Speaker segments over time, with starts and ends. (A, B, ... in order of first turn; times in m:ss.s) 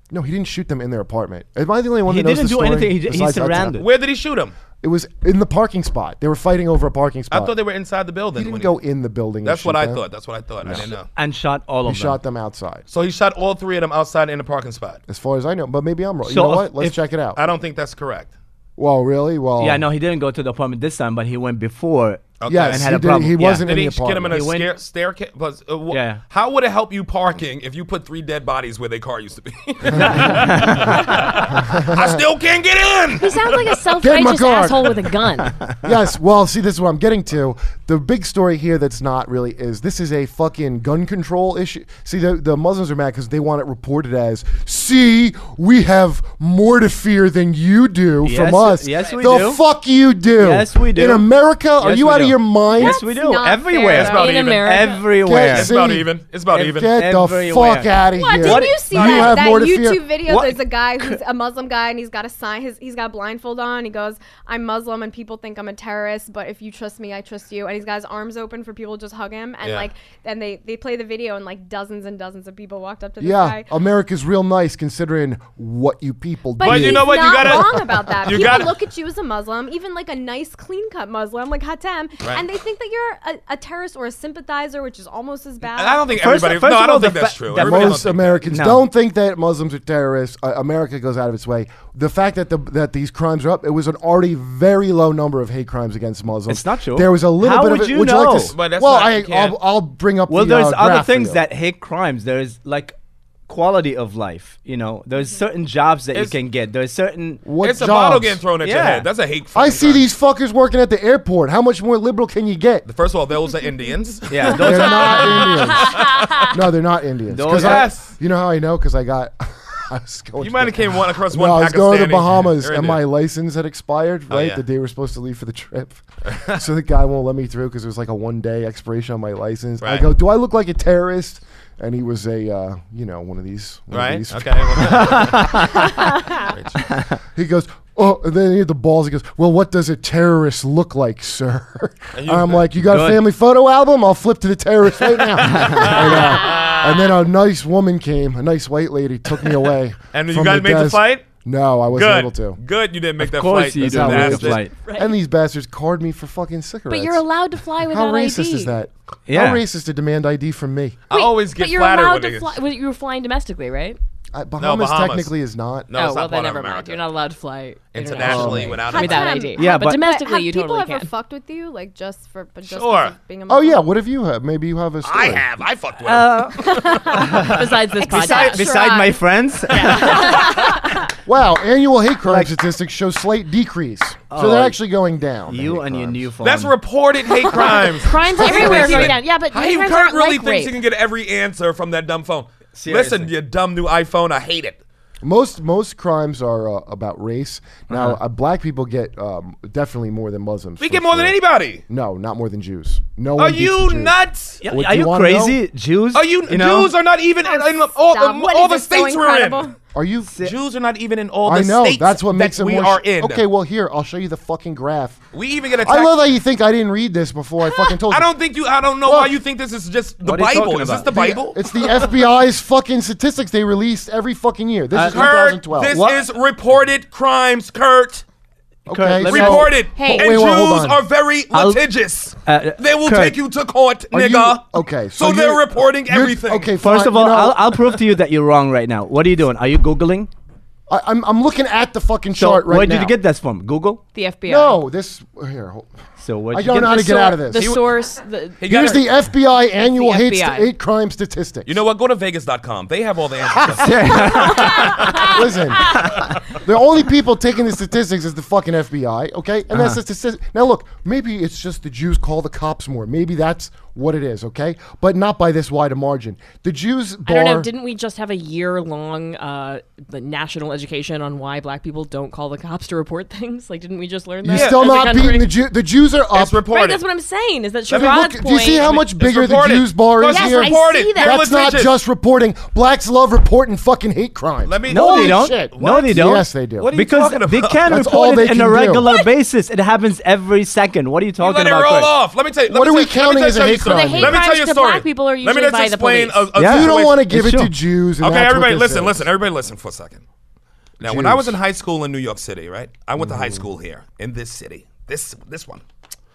0:00.1-0:03.8 A
0:02.1-0:03.9 B
0:03.8-0:04.6 C
0:04.8-0:07.5 A
0:07.3-0:08.7 C
0:08.4-0:10.0 A
0:09.4-0:11.1 C
0:10.7-0:12.2 B
0:11.8-0:12.8 A
0:12.9-0:15.0 C
0:15.1-0:17.4 A
0:16.3-0:17.0 B
0:17.4-0:18.3 C
0:18.8-0:19.9 A
0:19.6-0:23.7 B
0:22.4-0:22.9 C
0:22.5-0:24.4 A
0:23.6-0:33.8 C
0:24.3-0:24.7 B
0:25.9-0:26.2 B
0:30.0-0:31.1 B
0:31.5-0:32.2 A
0:33.2-0:35.6 D
0:34.0-0:35.1 A
0:35.8-0:53.0 A
0:48.2-0:49.6 B
0:50.4-0:51.3 B
0:51.8-0:55.7 B
0:52.8-0:54.2 E
0:53.8-0:55.2 D
0:53.8-0:54.8 C
0:55.2-1:00.1 A
0:55.4-0:56.9 C
0:56.7-0:59.2 B
0:58.2-1:13.7 E
0:58.9-0:59.4 C
1:00.3-1:01.2 B
1:09.6-1:09.9 C
1:13.2-1:17.8 A
1:16.6-1:26.2 E
1:16.6-1:18.8 C
1:25.6-1:28.4 C
1:26.1-1:28.8 B
1:27.6-1:41.4 A
1:36.5-1:38.6 B
1:38.5-1:39.6 C
1:40.3-1:43.0 B
1:43.5-1:47.4 B
1:47.4-1:48.4 A
1:47.6-1:50.0 C
1:48.6-1:49.1 B
1:49.6-1:52.9 A
1:52.9-1:56.5 C
1:54.3-1:55.5 B
1:54.5-2:15.6 A
1:55.8-1:56.5 D
1:57.3-1:58.0 B
1:57.5-1:58.1 C
2:00.4-2:03.0 C
2:04.3-2:04.6 C
2:06.3-2:06.6 C
2:09.8-2:10.1 C
2:13.9-2:16.8 C
2:14.9-2:15.9 B
2:16.9-2:17.2 B
2:17.4-2:32.6 A
2:22.2-2:22.8 C
2:22.9-2:23.2 B
2:25.4-2:27.2 C
2:25.5-2:26.0 B
2:30.1-2:31.3 C
2:31.9-2:34.7 C
2:33.2-2:34.8 B
2:33.8-2:37.2 A
2:34.8-2:35.1 D
2:36.9-2:38.7 D
2:37.8-2:41.0 A
2:39.3-2:39.6 B
2:41.1-2:42.6 C
2:41.1-2:44.0 D
2:44.3-2:45.9 A
2:44.6-2:45.3 C
2:45.9-2:47.0 C
2:45.9-2:51.1 D
2:47.9-2:49.5 C
2:48.2-2:48.8 A
2:48.3-2:48.7 B
2:48.8-2:53.9 E
2:49.6-2:50.0 B
2:52.7-2:53.2 C
2:53.5-2:55.5 A
2:55.0-2:57.5 C
2:56.0-3:00.5 B
2:56.6-2:59.2 D
2:56.8-2:57.3 E
2:58.0-2:59.0 E
2:59.7-3:00.8 D
3:00.1-3:00.6 C
3:01.3-3:06.2 A
3:02.2-3:02.5 B
3:04.3-3:04.8 B
3:05.5-3:06.8 B
3:06.4-3:14.8 C
3:07.3-3:10.8 D
3:08.4-3:09.1 E
3:12.8-3:13.3 B
3:15.2-3:21.4 A
3:17.9-3:18.2 B
3:20.8-3:21.8 C
3:21.9-3:24.1 A
3:23.4-3:24.6 C
3:24.6-3:26.9 B
3:24.7-3:25.6 A
3:26.1-3:29.7 C
3:27.4-3:29.8 E
3:30.0-3:30.3 A
3:30.3-3:30.6 B
3:30.4-3:33.4 C
3:31.4-3:35.2 A
3:35.3-3:36.2 C
3:35.8-3:38.3 A
3:38.1-3:42.1 C
3:39.0-3:39.4 A
3:40.2-3:41.4 B
3:41.3-3:46.0 A
3:44.9-3:45.3 B
3:45.0-3:48.2 C
3:45.9-3:46.2 B
3:48.9-3:51.0 A
3:48.9-3:49.8 B
3:49.3-3:56.7 C
3:49.9-3:50.4 D
3:51.5-3:51.9 B
3:52.4-3:53.4 B
3:54.1-3:57.6 A
3:56.8-4:00.3 B
4:00.9-4:03.2 A
4:02.4-4:04.0 B
4:04.1-4:04.8 D
4:04.5-4:05.9 A
4:06.2-4:07.3 B
4:06.5-4:07.7 A
4:06.8-4:08.6 D
4:07.6-4:07.9 C
4:08.6-4:09.1 C
4:08.6-4:11.7 A
4:09.8-4:10.7 D
4:11.7-4:16.6 C
4:13.8-4:15.3 B
4:15.1-4:27.7 A
4:15.9-4:16.3 B
4:27.3-4:35.5 D
4:34.4-4:36.6 A
4:34.5-4:35.0 C
4:36.3-4:37.0 C
4:36.7-4:39.0 D
4:37.9-4:42.0 C
4:37.9-4:46.9 A
4:40.3-4:41.4 D
4:40.7-4:41.0 E
4:44.6-4:46.2 C
4:44.9-4:52.1 B
4:46.8-4:47.9 C
4:47.9-4:49.1 A
4:51.4-4:57.2 C
4:52.7-4:54.4 A
4:53.8-4:56.6 D
4:56.6-4:57.7 B
4:56.6-4:59.3 A
4:58.2-5:00.2 C
5:01.0-5:05.8 C
5:01.0-5:01.6 A
5:03.2-5:03.6 A